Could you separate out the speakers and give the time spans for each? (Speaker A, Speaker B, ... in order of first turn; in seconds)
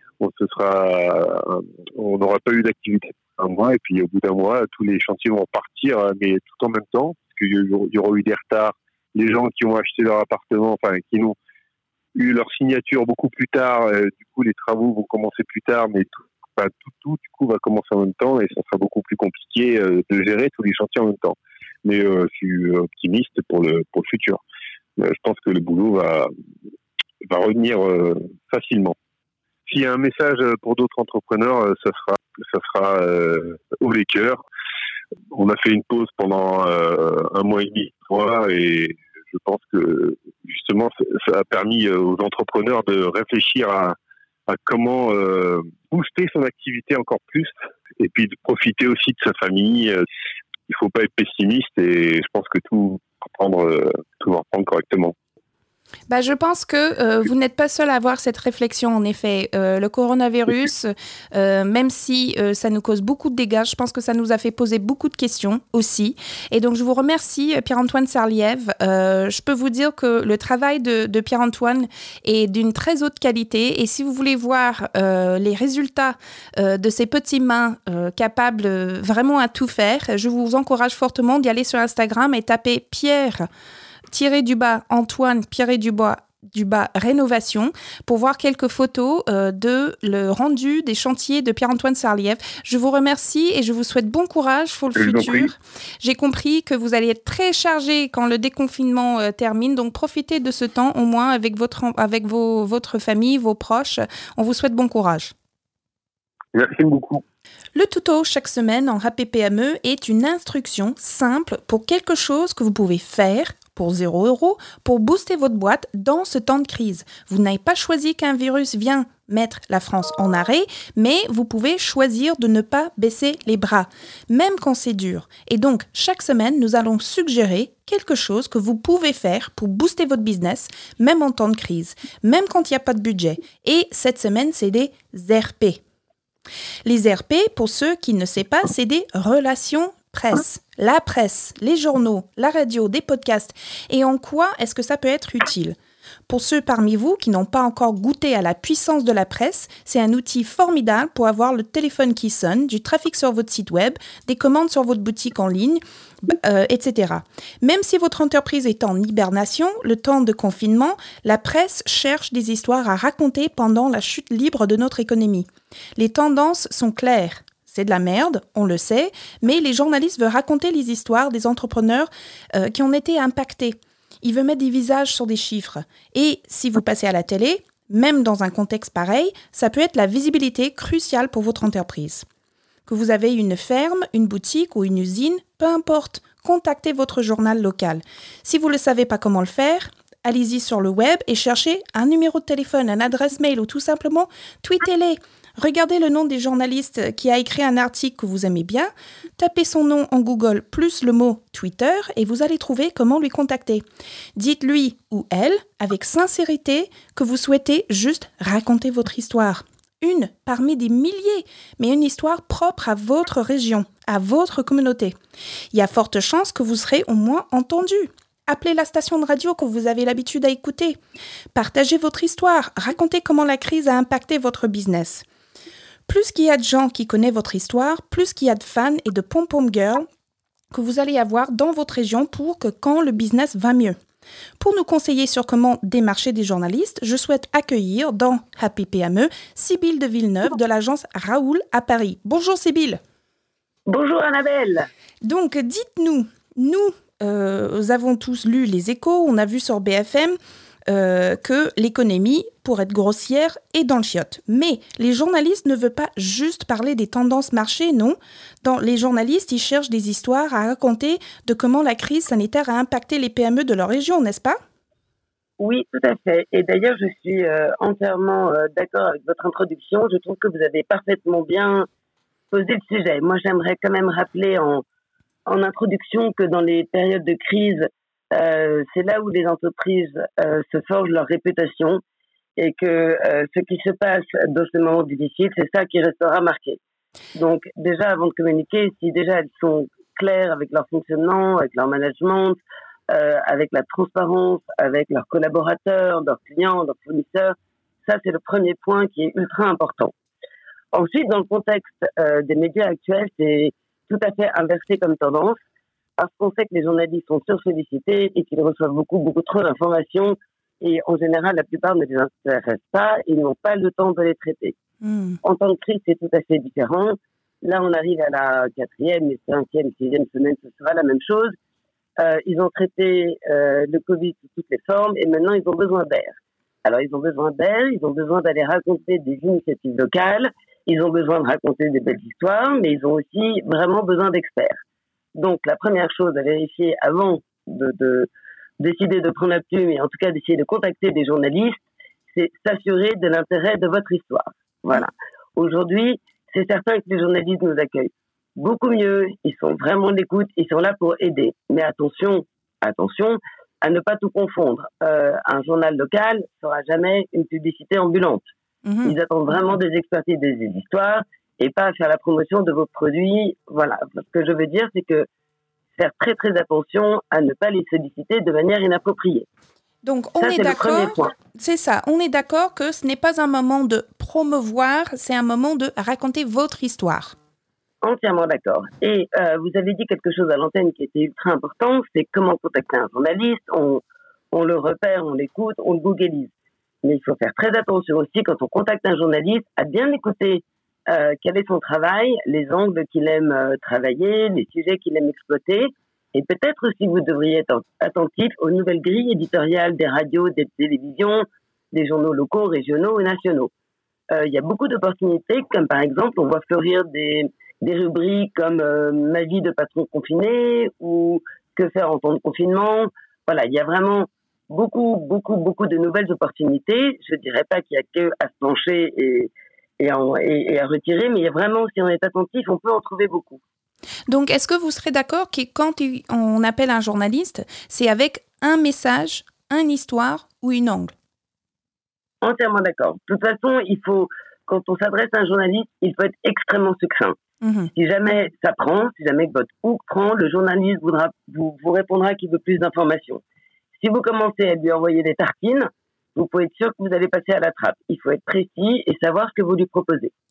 Speaker A: 0.2-11.3, 12.1-24.4, 25.0-26.3, 27.2-28.9, 29.7-34.4, 35.3-44.0, 44.5-50.0, 50.7-55.1, 95.0-95.5, 106.5-107.2
Speaker B: 56.1-83.5, 84.1-105.3, 107.7-135.8, 136.8-145.8, 146.3-182.2, 182.9-203.8, 204.3-215.2, 215.7-221.0, 221.5-225.2, 226.1-230.1, 230.7-234.0, 234.6-243.0, 245.2-250.4, 250.9-264.6, 315.0-315.4, 358.8-359.1, 370.0-377.4, 424.3-431.1, 437.6-437.9
Speaker C: 243.9-244.9, 265.6-271.9, 272.5-274.8, 275.4-282.0, 282.6-286.8, 287.4-300.1, 300.9-305.6, 306.2-314.8, 315.4-321.5, 322.2-334.8, 335.4-358.5, 359.0-365.3, 365.9-369.5, 370.4-371.3, 378.0-386.5, 387.0-403.7, 404.3-423.6, 432.4-437.4, 437.9-443.4, 444.0-450.3